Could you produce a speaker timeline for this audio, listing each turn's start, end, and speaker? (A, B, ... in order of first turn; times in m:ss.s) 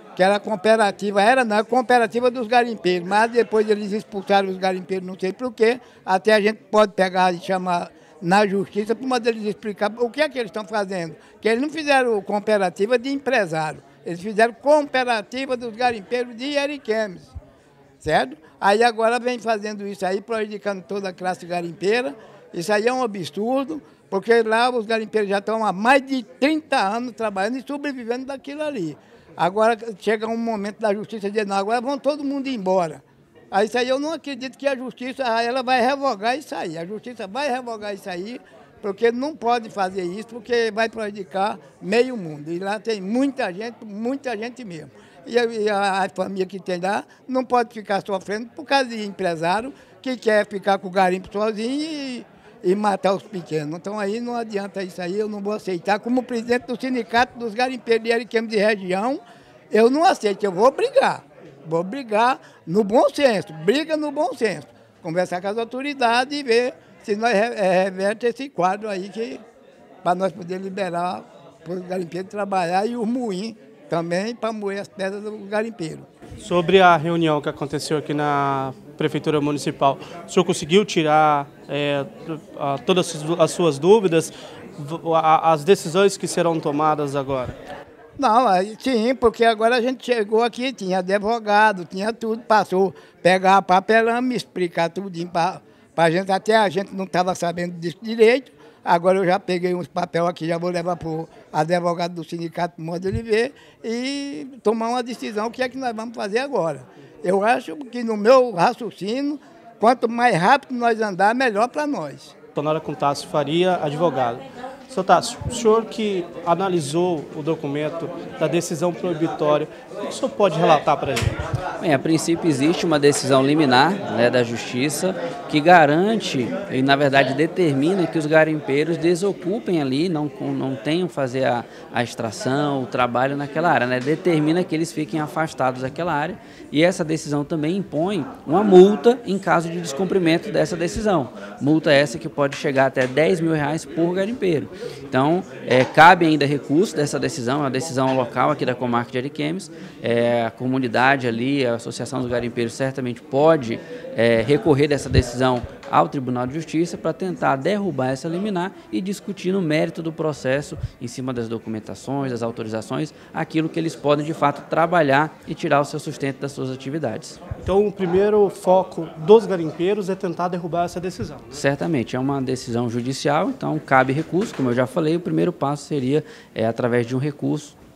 0:00.2-0:17.3 A
0:18.0-1:09.4 A
1:10.0-1:16.1 A
1:16.4-1:27.6 B
1:28.2-1:52.3 A
1:52.5-2:01.4 B
2:01.8-2:47.4 C
2:47.6-2:51.6 B
2:51.5-2:57.8 C